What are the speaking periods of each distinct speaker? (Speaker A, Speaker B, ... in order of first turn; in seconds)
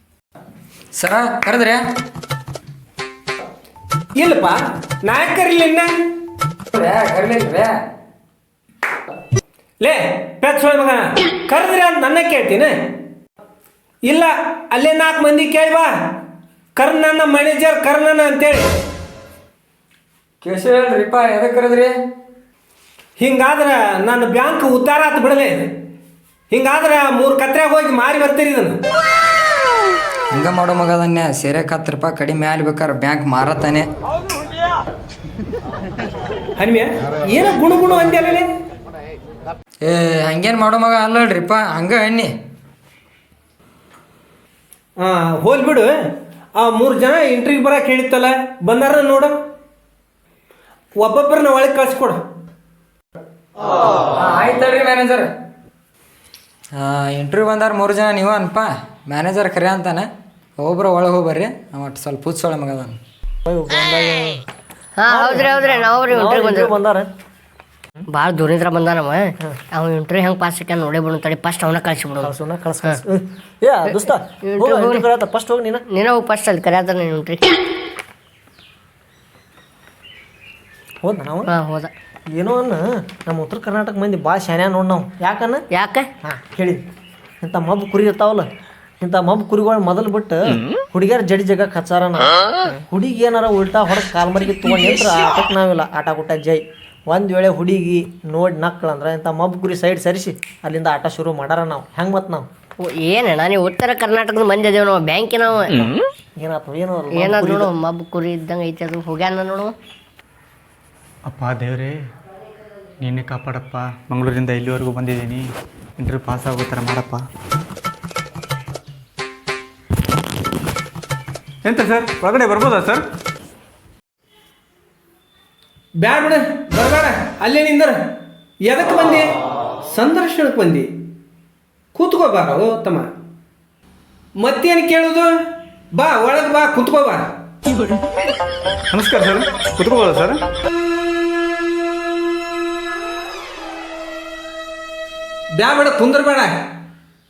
Speaker A: 0.9-1.8, 6.7-7.8, 20.4-22.0, 30.3-33.9, 39.8-42.3, 54.1-55.3, 56.8-60.1, 60.6-63.0
Speaker B: 4.2-5.9, 9.8-12.9, 14.1-15.9, 16.8-18.6, 23.2-25.7, 26.5-28.8, 36.6-38.5, 45.0-45.9, 46.5-49.4, 51.0-52.2, 126.0-128.0, 128.6-129.3, 129.9-130.9, 131.9-133.1, 134.4-135.3, 135.9-137.3, 145.5-146.6
Speaker C: 63.4-64.4, 65.1-67.1, 72.2-75.8, 81.0-81.5, 82.3-85.6, 86.2-86.8, 87.4-88.5, 89.0-92.3, 92.9-102.5, 106.4-107.7
Speaker D: 65.0-66.7, 68.1-72.3, 73.8-75.1, 75.9-77.6, 81.5-81.9, 85.7-86.1, 102.8-105.9, 107.1-109.7
Speaker E: 111.2-111.9, 113.0-115.5, 116.0-117.2, 121.6-123.0, 138.9-140.4